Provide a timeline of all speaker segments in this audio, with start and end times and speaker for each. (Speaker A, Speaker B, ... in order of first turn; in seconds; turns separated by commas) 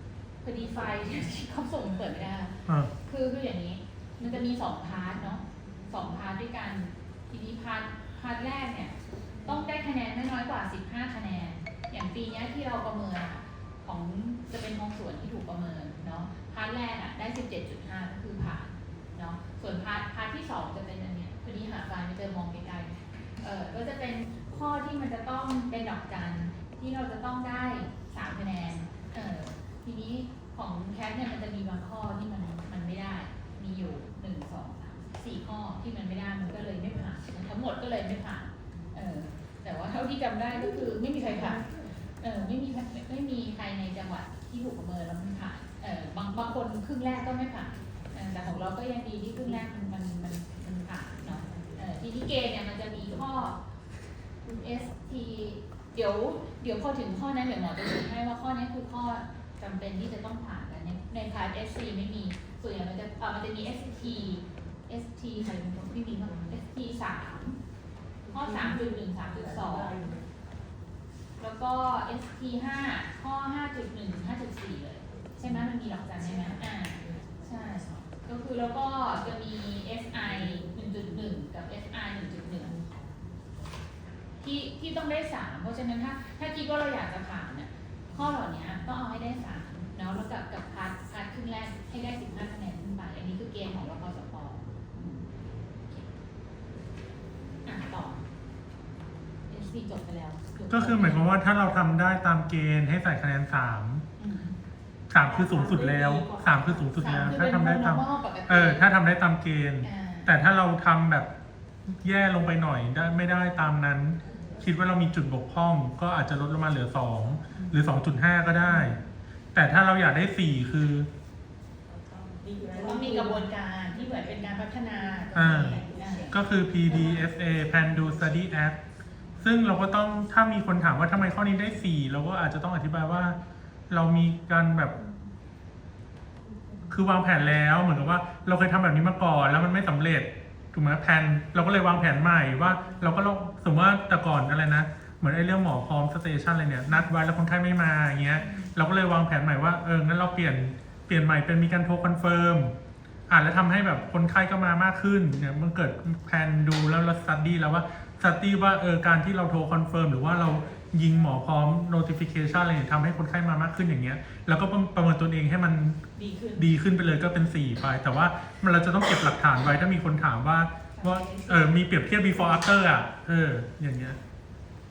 Speaker A: 0.4-41.6, Speaker B: 0.7-1.1, Speaker C: 2.6-2.9, Speaker B: 5.5-6.2, Speaker B: 9.3-9.6, Speaker B: 40.5-42.4, Speaker A: 42.2-53.6, Speaker B: 51.2-52.0, Speaker B: 53.0-53.5, Speaker A: 54.5-67.6, Speaker B: 66.0-66.5, Speaker B: 68.2-70.5, Speaker A: 68.3-70.0, Speaker A: 71.4-82.8, Speaker B: 75.1-81.2, Speaker B: 82.5-84.0, Speaker A: 84.4-95.3, Speaker A: 97.6-98.2, Speaker A: 99.5-101.3, Speaker C: 100.7-104.0, Speaker A: 104.2-104.6, Speaker C: 105.1-111.3, Speaker B: 105.2-107.3, Speaker A: 106.9-108.9, Speaker A: 109.8-110.3, Speaker C: 111.9-119.0, Speaker B: 114.2-114.7, Speaker A: 117.5-117.8, Speaker A: 118.7-118.9, Speaker C: 119.5-121.1, Speaker B: 121.9-128.5, Speaker A: 122.8-126.4, Speaker C: 125.4-128.8, Speaker C: 129.4-133.4, Speaker C: 133.9-134.9, Speaker B: 136.4-137.0, Speaker C: 136.9-152.7, Speaker A: 148.3-148.7, Speaker C: 153.3-166.0, Speaker B: 160.7-161.3, Speaker A: 166.2-166.7, Speaker C: 166.6-174.2, Speaker A: 170.9-172.7